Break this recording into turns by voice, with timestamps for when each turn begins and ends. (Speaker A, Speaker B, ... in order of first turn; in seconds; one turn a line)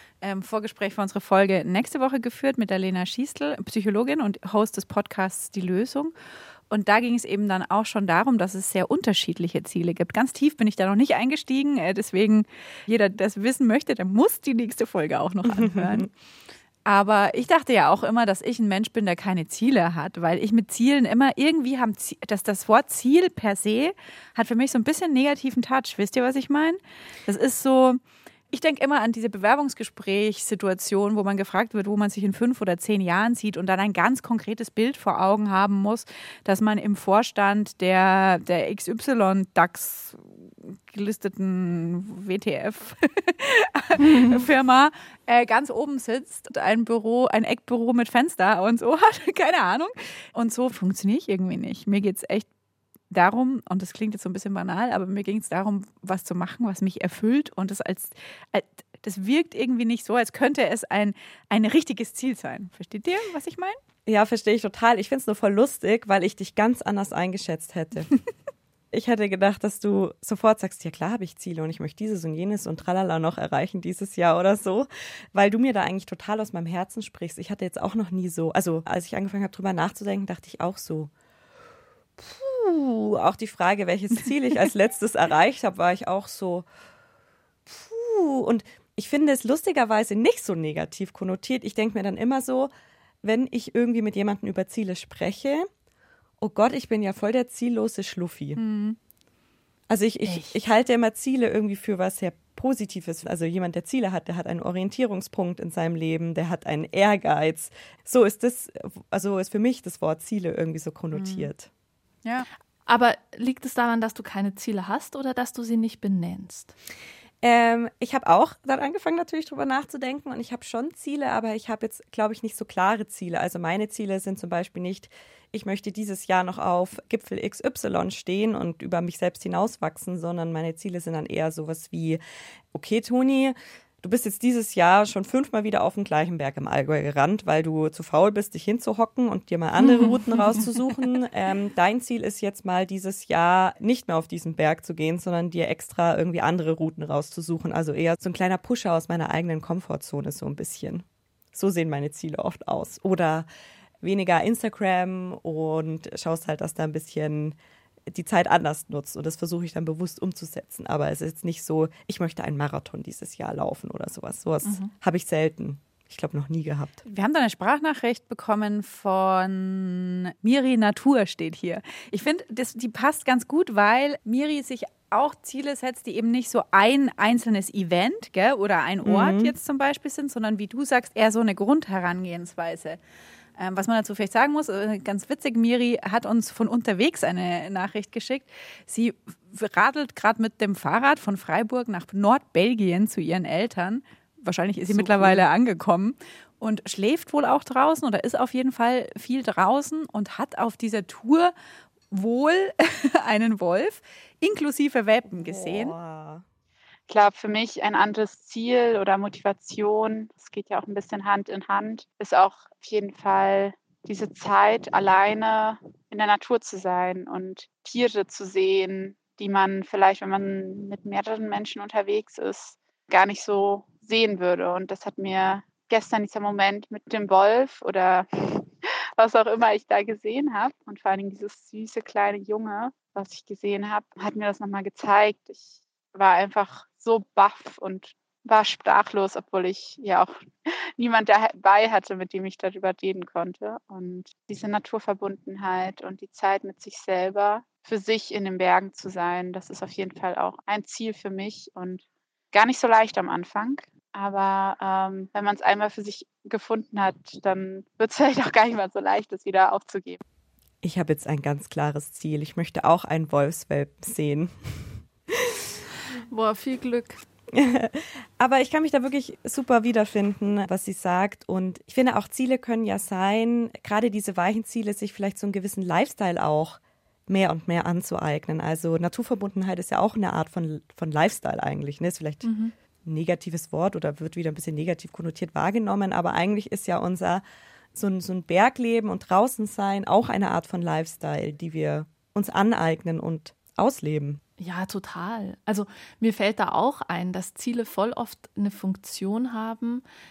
Speaker A: 0.2-6.1
Speaker A: 6.7-16.1
Speaker B: 15.4-16.1
Speaker A: 16.9-28.0
Speaker A: 28.5-52.5
Speaker C: 44.0-44.4
Speaker A: 53.1-63.8
Speaker B: 64.0-68.1
Speaker B: 68.9-81.1
Speaker B: 82.2-86.7
Speaker B: 87.7-92.7
Speaker B: 93.2-95.7
Speaker B: 96.4-98.6
Speaker A: 98.5-99.0
Speaker B: 99.9-111.7
Speaker C: 100.2-100.5
Speaker A: 111.1-111.5
Speaker C: 112.8-116.7
Speaker B: 117.4-132.2
Speaker B: 132.7-153.5
Speaker C: 139.8-140.6
Speaker B: 154.0-157.6
Speaker B: 158.1-167.0
Speaker C: 164.6-164.9
Speaker A: 167.0-183.0
Speaker B: 179.0-179.5
Speaker A: 183.6-201.5
Speaker B: 194.9-195.4
Speaker A: 202.1-205.9
Speaker B: 205.3-206.4
Speaker D: 207.1-240.4
Speaker D: 241.0-260.2
Speaker B: 260.8-265.6
Speaker C: 266.3-267.2
Speaker B: 267.5-282.5
Speaker C: 282.4-282.7
Speaker B: 283.0-287.4
Speaker B: 287.9-294.4
Speaker C: 294.6-300.0